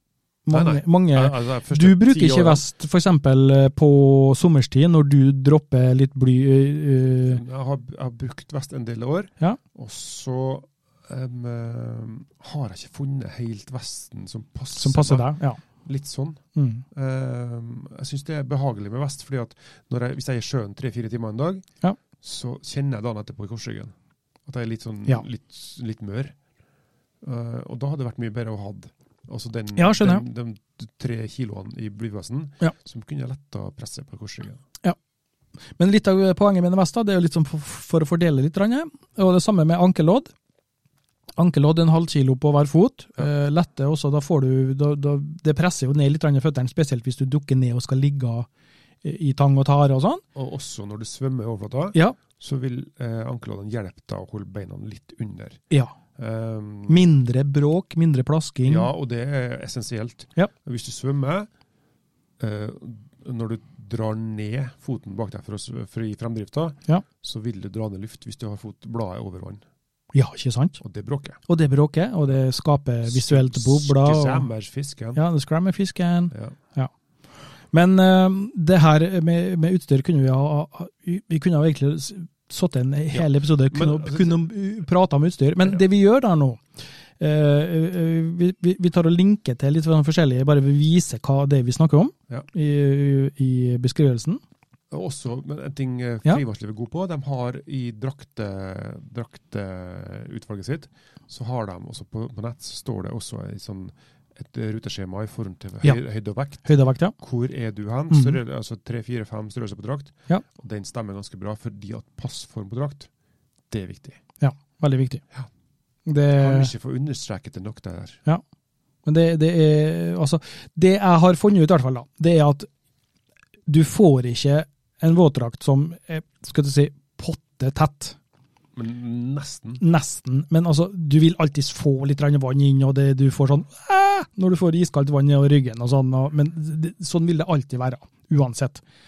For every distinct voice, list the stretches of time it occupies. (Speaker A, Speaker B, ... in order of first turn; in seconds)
Speaker A: 0.5-7.4, 14.8-15.6, 16.6-16.8, 29.8-30.2, 35.8-40.3, 41.4-48.5, 49.0-50.2, 56.9-58.9, 70.1-70.8, 71.5-74.5, 75.2-76.9, 77.7-86.6, 87.2-94.4, 106.6-107.2, 114.4-115.2, 116.1-116.7, 119.0-122.7, 123.7-128.2, 129.8-138.8
Speaker B: 0.5-2.6, 7.2-21.6, 22.2-23.9, 24.5-26.4, 27.2-34.6, 50.4-55.6, 56.2-57.0, 58.6-61.5, 62.4-69.6, 70.8-71.4, 73.0-75.2, 83.1-84.5, 94.9-106.7, 107.2-113.1, 113.7-114.2, 116.3-118.2, 128.8-129.8